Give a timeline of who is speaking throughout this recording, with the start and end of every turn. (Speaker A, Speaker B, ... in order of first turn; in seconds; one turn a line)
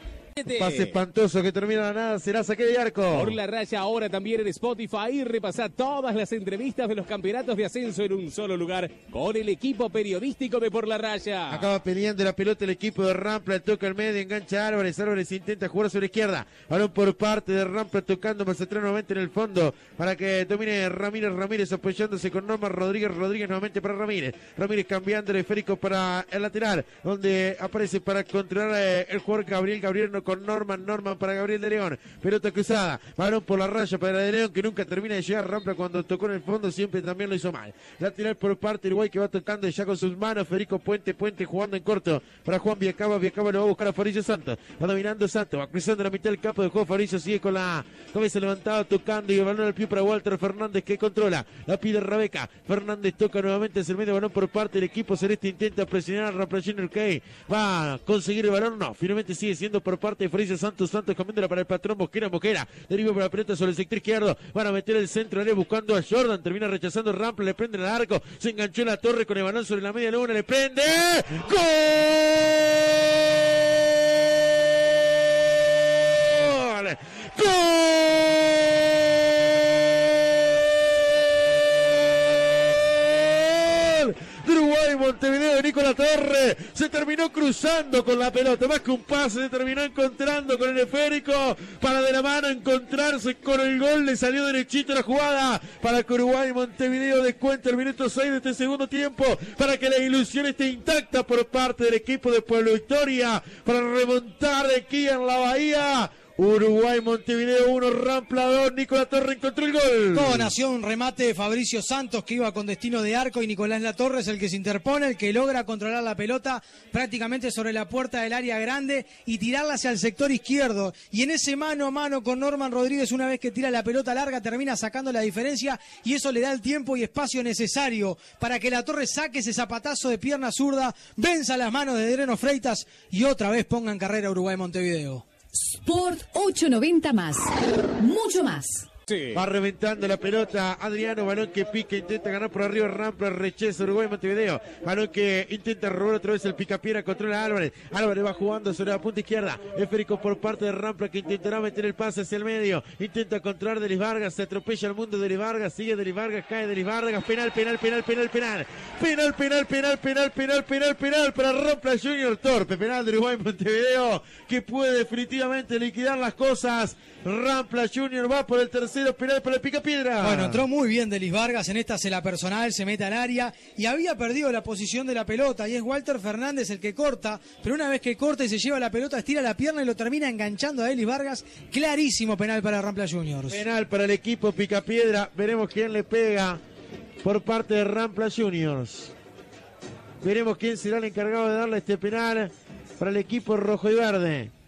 Speaker A: 0.4-0.9
Speaker B: 0.5-3.4
Speaker A: 3.1-11.7
Speaker B: 11.5-110.5
Speaker C: 110.1-135.2
Speaker D: 135.5-138.9
Speaker B: 139.3-170.6
Speaker C: 170.2-183.6
Speaker B: 183.5-186.6
Speaker B: 187.2-189.1
Speaker B: 190.2-194.5